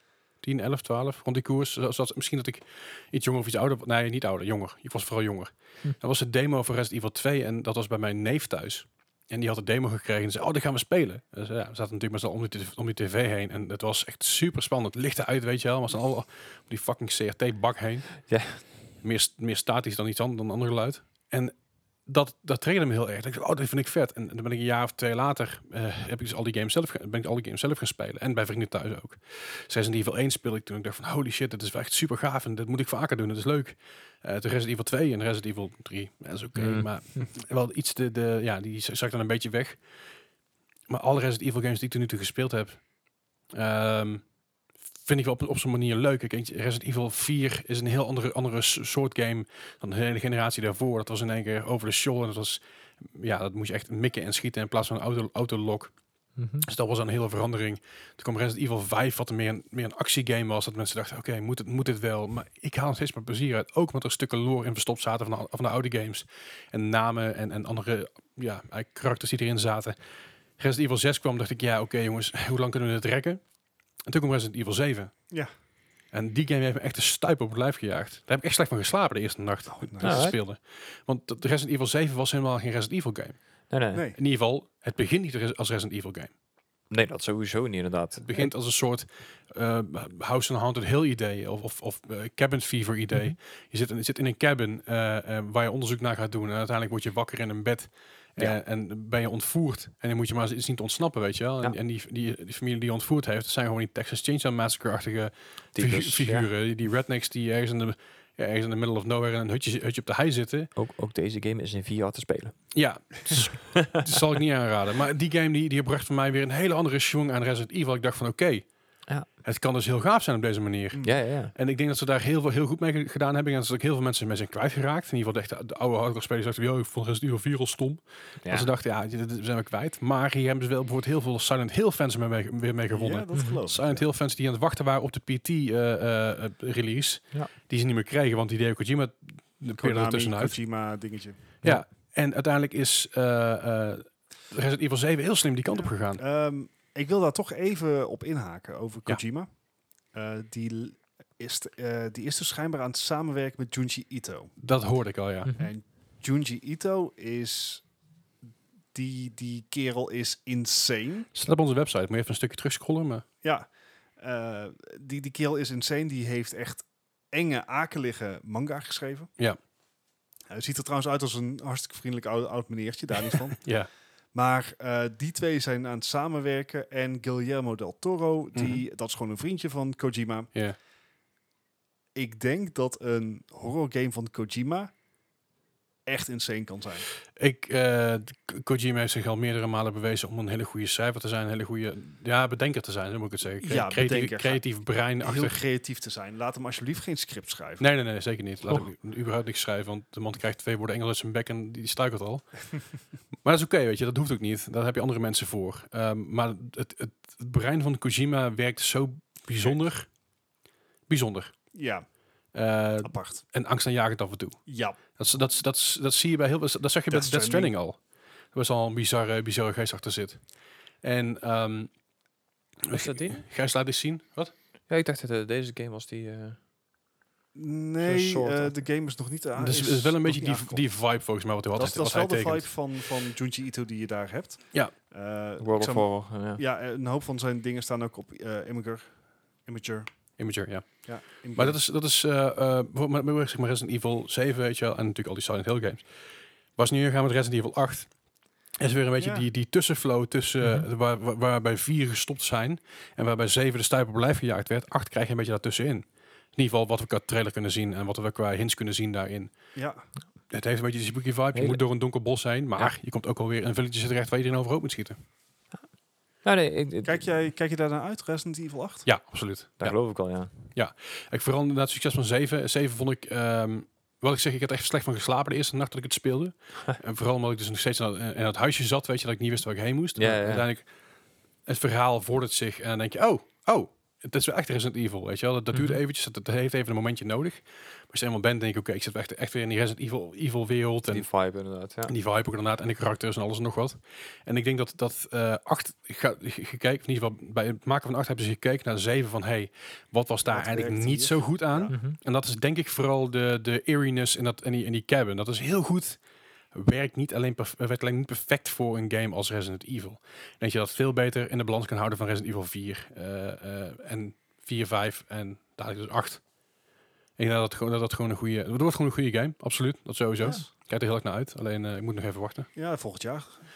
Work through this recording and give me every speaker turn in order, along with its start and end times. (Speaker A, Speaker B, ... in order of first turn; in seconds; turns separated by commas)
Speaker A: 0.4-39.8, Speaker B: 18.3-18.6, Speaker B: 36.5-37.2, Speaker A: 40.9-42.9, Speaker A: 43.5-44.3, Speaker A: 45.0-55.9, Speaker B: 56.4-56.6, Speaker A: 56.6-69.9, Speaker A: 70.6-73.4, Speaker A: 74.1-75.1, Speaker A: 76.1-83.4, Speaker C: 79.7-80.3, Speaker B: 80.0-80.4, Speaker B: 83.7-84.0, Speaker C: 83.9-84.2, Speaker A: 84.2-86.3, Speaker B: 86.9-88.5, Speaker A: 88.2-110.7, Speaker B: 105.7-106.5, Speaker B: 110.8-112.6, Speaker A: 112.7-118.7, Speaker B: 113.7-114.1, Speaker A: 119.4-140.6, Speaker B: 121.0-121.5, Speaker B: 128.4-128.7, Speaker C: 132.9-134.1, Speaker B: 133.3-133.6, Speaker C: 139.8-141.4, Speaker A: 141.6-146.2, Speaker C: 145.7-149.5, Speaker C: 150.1-154.5, Speaker A: 154.6-155.5, Speaker B: 155.4-155.7, Speaker C: 155.6-157.8, Speaker C: 158.9-161.3, Speaker A: 161.3-163.2, Speaker C: 163.4-163.7, Speaker C: 164.2-169.3, Speaker C: 170.5-173.7, Speaker A: 173.6-173.9, Speaker C: 174.3-180.5, Speaker A: 178.5-178.8, Speaker C: 182.1-184.9, Speaker C: 186.1-187.1, Speaker A: 187.3-195.6, Speaker C: 193.6-194.6, Speaker C: 195.2-197.8, Speaker A: 197.8-202.7, Speaker A: 203.4-210.1, Speaker A: 211.1-211.5, Speaker C: 211.7-212.1, Speaker A: 212.5-218.0, Speaker C: 213.0-213.4, Speaker C: 214.7-215.0, Speaker C: 217.1-217.7, Speaker A: 218.5-220.4, Speaker A: 221.0-221.9, Speaker A: 222.8-224.5, Speaker B: 222.9-223.4, Speaker B: 224.9-226.6, Speaker C: 227.5-230.8, Speaker B: 228.0-228.8, Speaker A: 229.6-232.7, Speaker C: 231.8-239.1, Speaker B: 235.6-236.6, Speaker C: 239.6-240.1, Speaker A: 240.4-246.1, Speaker C: 241.0-241.8, Speaker A: 246.8-248.1, Speaker A: 248.8-259.5, Speaker C: 249.2-249.5, Speaker B: 250.6-250.9, Speaker C: 259.7-260.1, Speaker A: 260.5-265.1, Speaker B: 261.5-261.8, Speaker B: 266.4-267.3, Speaker C: 267.0-269.1, Speaker A: 269.0-269.9, Speaker B: 269.8-270.5, Speaker A: 270.7-280.9, Speaker B: 280.2-280.6, Speaker A: 281.6-291.3, Speaker B: 285.7-286.0, Speaker B: 291.1-292.1, Speaker A: 292.1-306.2, Speaker C: 300.5-301.9, Speaker B: 301.9-302.2, Speaker A: 306.7-316.4, Speaker A: 317.4-322.7, Speaker C: 322.8-323.6